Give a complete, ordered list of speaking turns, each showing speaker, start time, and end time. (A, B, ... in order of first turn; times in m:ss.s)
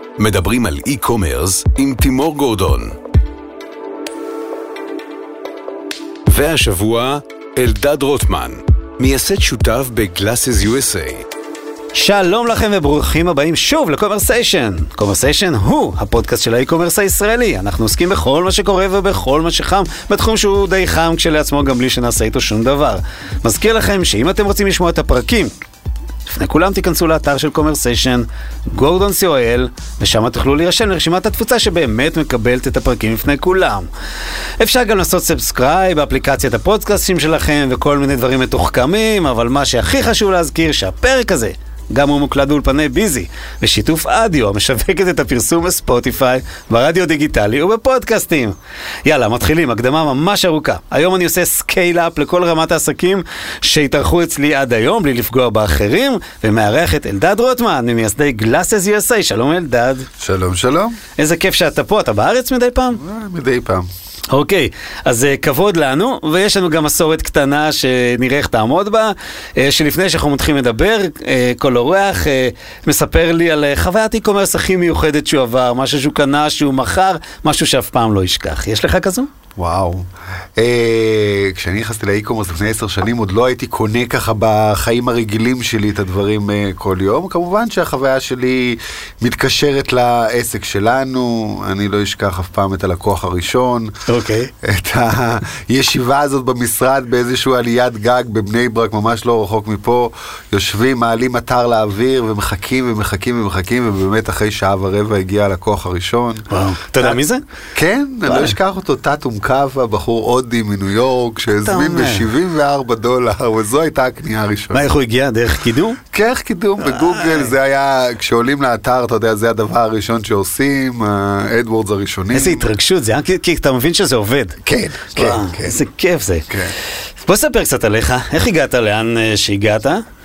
0:00.2-0:03.0 A
0:06.3-0:11.2 A
0:11.9-0:25.5 B
0:26.3-0:33.9 B
0:34.6-1:00.1 B
1:00.2-1:01.0 C
1:01.2-1:03.0 B
1:03.0-1:03.9 C
1:04.3-1:19.3 B
1:19.6-1:34.0 C
1:34.1-1:34.5 B
1:34.6-1:46.4 C
1:46.5-1:47.4 B
1:47.7-1:54.9 C
1:48.2-1:48.5 B
1:51.6-1:52.3 B
1:54.7-1:56.0 B
1:56.1-2:02.7 C
1:56.9-1:57.5 B
2:02.3-2:04.6 B
2:04.6-2:05.8 C
2:05.1-2:06.5 B
2:06.5-2:06.7 C
2:07.2-2:10.0 B